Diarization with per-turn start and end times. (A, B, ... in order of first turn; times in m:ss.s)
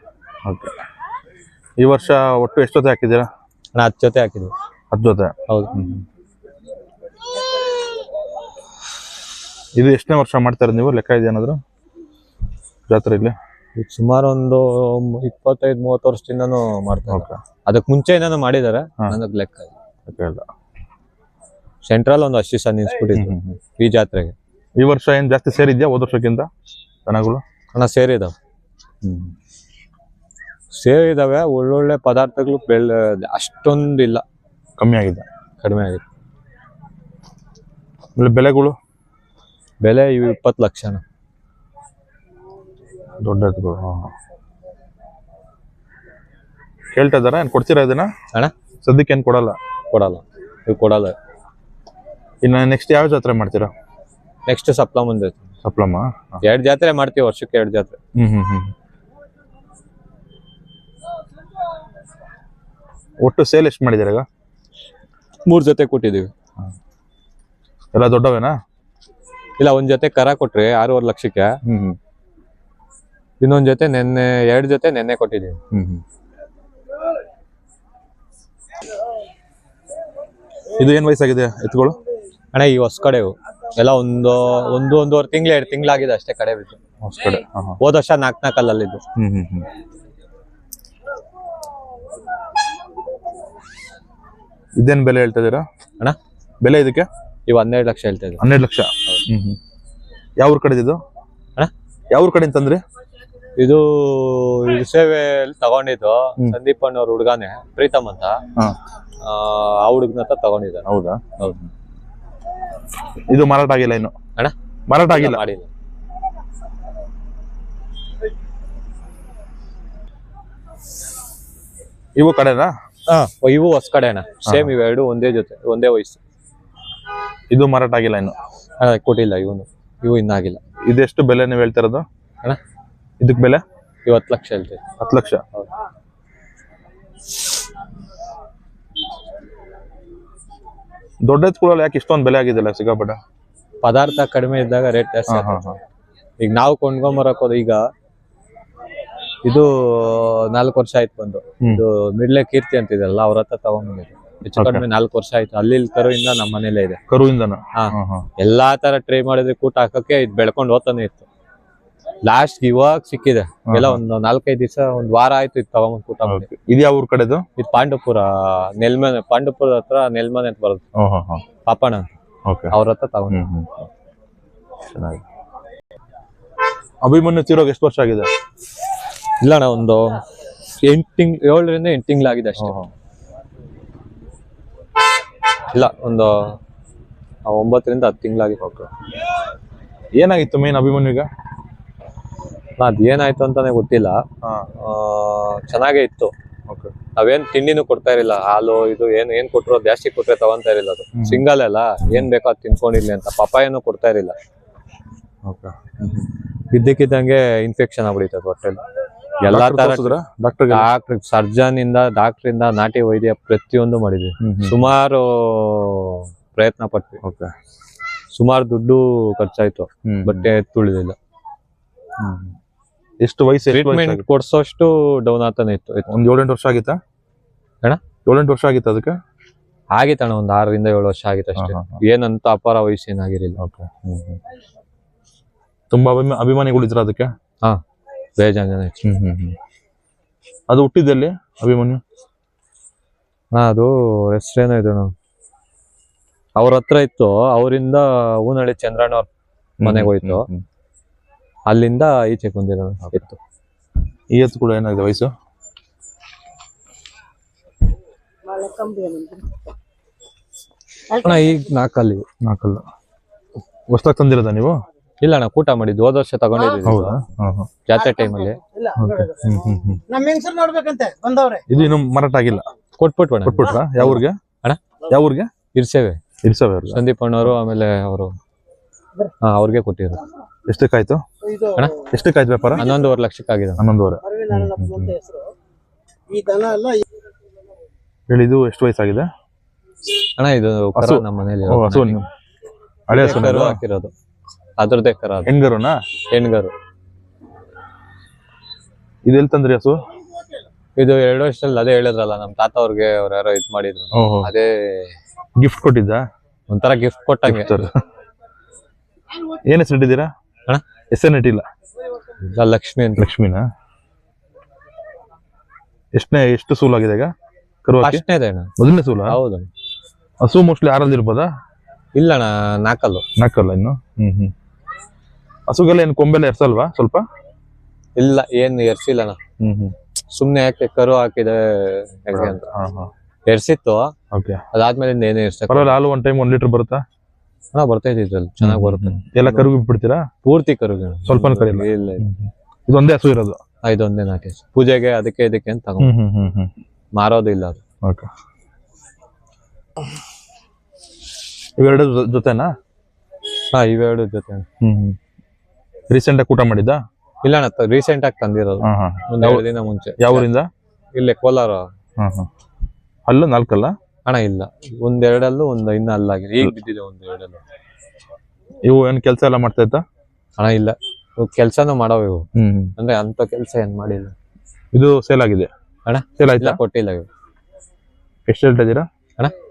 0:00.4-0:00.8 A
0:01.8-0:03.3 A
0:03.8-0:04.5 B
0:04.9-0:06.0 A
0:05.5-0:05.7 B
0:09.8-0:11.6 A
0:12.9-0:13.4 A
0:13.8-0:19.7 B
0:17.1-0:17.4 A
0:20.1-0:20.5 A
0:21.8-0:24.4 B
0:23.1-0:23.6 A
0:24.8-0:26.5 A
0:27.1-0:27.4 A
0:27.8-0:28.3 B
0:29.0-0:29.3 A
0:30.7-0:34.2 B
0:34.8-0:35.3 A
0:35.6-0:36.0 B
0:38.2-0:38.8 A
0:39.8-0:41.0 B
0:43.2-0:44.1 A
0:46.9-0:48.1 A
0:48.8-0:49.6 A
0:49.9-0:51.1 B
0:52.4-0:53.7 A
0:54.5-0:55.5 B
0:55.6-0:56.4 A
0:56.4-0:58.0 B
0:58.2-0:58.7 A
1:03.2-1:04.2 A
1:05.5-1:06.3 B
1:07.9-1:08.5 A
1:09.6-1:11.6 B
1:11.6-1:12.0 A
1:13.4-1:15.6 B
1:15.7-1:16.0 A
1:20.8-1:22.0 A
1:22.5-1:26.8 B
1:27.0-1:27.8 A
1:27.8-1:29.0 B
1:29.2-1:29.7 A
1:34.8-1:35.6 A
1:36.6-1:37.1 A
1:37.5-1:38.4 B
1:38.4-1:39.6 A
1:40.4-1:41.0 A
1:42.1-1:42.8 A
1:43.6-1:48.4 B
1:49.2-1:50.9 B
1:50.9-1:51.7 A
1:53.3-1:54.1 A
1:54.9-1:55.4 A
1:55.1-1:55.7 B
2:02.2-2:02.7 A
2:03.1-2:06.2 B
2:07.5-2:08.4 A
2:08.8-2:10.6 B
2:10.9-2:12.0 A
2:13.2-2:13.6 A
2:14.0-2:14.8 B
2:15.0-2:15.4 A
2:21.2-2:23.2 A
2:23.8-2:25.7 B
2:25.3-2:25.8 A
2:26.4-2:27.8 B
2:29.4-2:37.0 B
2:34.6-2:34.8 A
2:37.1-2:38.3 A
2:37.8-2:41.3 B
2:42.2-2:46.5 B
2:43.7-2:44.0 A
2:46.3-2:47.4 A
2:47.6-2:50.8 B
2:51.0-2:51.4 A
2:51.7-2:52.1 B
2:52.5-2:52.7 A
2:52.7-2:53.4 B
2:53.3-2:53.9 A
2:54.9-2:55.2 A
2:57.0-2:58.3 A
2:59.4-3:00.1 B
3:00.8-3:02.8 B
3:02.6-3:02.9 A
3:05.7-3:06.6 B
3:07.5-3:08.6 B
3:08.6-3:08.9 A
3:10.2-3:11.3 A
3:12.8-3:14.2 B
3:14.8-3:16.3 B
3:17.2-3:24.3 B
3:21.2-3:21.4 A
3:25.4-3:26.3 A
3:26.7-3:28.8 B
3:29.4-3:30.2 B
3:29.5-3:30.9 A
3:30.7-3:37.2 B
3:34.4-3:34.9 A
3:37.2-3:37.5 A
3:38.3-3:41.2 B
3:40.1-3:40.5 A
3:42.2-3:42.6 A
3:43.2-3:44.2 A
3:43.7-3:46.1 B
3:46.1-3:47.0 A
3:48.2-3:49.2 A
3:49.9-3:53.6 B
3:51.6-3:52.0 A
3:53.6-3:54.4 A
3:55.9-3:57.3 A
3:58.4-3:59.0 B
3:59.0-3:59.6 A
4:00.7-4:02.0 A
4:03.5-4:05.1 B
4:06.6-4:09.3 B
4:09.8-4:10.6 A
4:09.8-4:10.5 B
4:11.7-4:13.4 B
4:14.3-4:15.3 A
4:18.5-4:19.6 C
4:21.1-4:22.2 B
4:22.4-4:22.9 A
4:23.9-4:24.8 A
4:25.2-4:27.2 B
4:26.8-4:27.7 A
4:27.8-4:28.6 B
4:29.0-4:30.0 A
4:30.1-4:31.6 C
4:31.7-4:32.6 A
4:33.0-4:34.8 B
4:33.4-4:34.4 A
4:35.1-4:35.5 A
4:35.7-4:36.2 B
4:36.4-4:37.0 A
4:36.9-4:38.3 B
4:39.4-4:40.2 B
4:40.7-4:41.2 A
4:41.7-4:42.0 B
4:42.0-4:42.9 A
4:42.8-4:43.8 B
4:43.8-4:45.2 A
4:44.4-4:45.5 C
4:46.3-4:47.0 C
4:48.3-4:49.3 A
4:50.4-4:52.2 B
4:51.0-4:52.2 A
4:53.1-4:53.8 A
4:53.1-4:54.1 B
4:54.8-4:55.5 B
4:55.5-4:56.0 A
4:56.3-4:56.7 B
4:59.2-5:00.0 A
5:01.0-5:05.1 B
5:04.2-5:04.5 A
5:05.6-5:06.2 A
5:06.7-5:07.8 B
5:07.4-5:07.9 A
5:09.7-5:10.3 A
5:11.1-5:11.6 A
5:12.4-5:13.3 B
5:13.2-5:13.6 A
5:16.2-5:17.3 A
5:17.8-5:18.2 A
5:18.0-5:18.7 B
5:18.8-5:19.3 A
5:19.3-5:19.7 B
5:20.4-5:21.5 A
5:22.2-5:23.2 B
5:23.4-5:24.5 A
5:25.7-5:27.2 A
5:28.2-5:29.4 B
5:29.6-5:29.9 A
5:30.3-5:32.6 B
5:32.3-5:33.1 A
5:33.5-5:34.1 B
5:34.3-5:34.6 A
5:34.7-5:36.0 B
5:35.7-5:37.0 A
5:37.7-5:39.7 B
5:38.6-5:40.2 A
5:40.4-5:42.3 B
5:41.3-5:43.6 A
5:43.8-5:46.1 B
5:46.0-5:46.7 A
5:47.1-5:47.8 B
5:51.8-5:52.7 A
5:53.7-5:54.7 B
5:54.8-5:55.2 A
5:56.1-5:57.0 A
5:57.4-6:00.5 B
5:58.8-5:59.7 A
6:00.2-6:00.7 A
6:01.1-6:01.8 B
6:02.2-6:02.5 A
6:03.3-6:03.9 A
6:04.3-6:07.6 B
6:08.8-6:10.0 A
6:10.6-6:12.5 B
6:12.6-6:12.9 A
6:13.0-6:14.3 B
6:14.9-6:15.7 A
6:16.1-6:17.3 B
6:16.4-6:16.8 A
6:18.5-6:19.1 A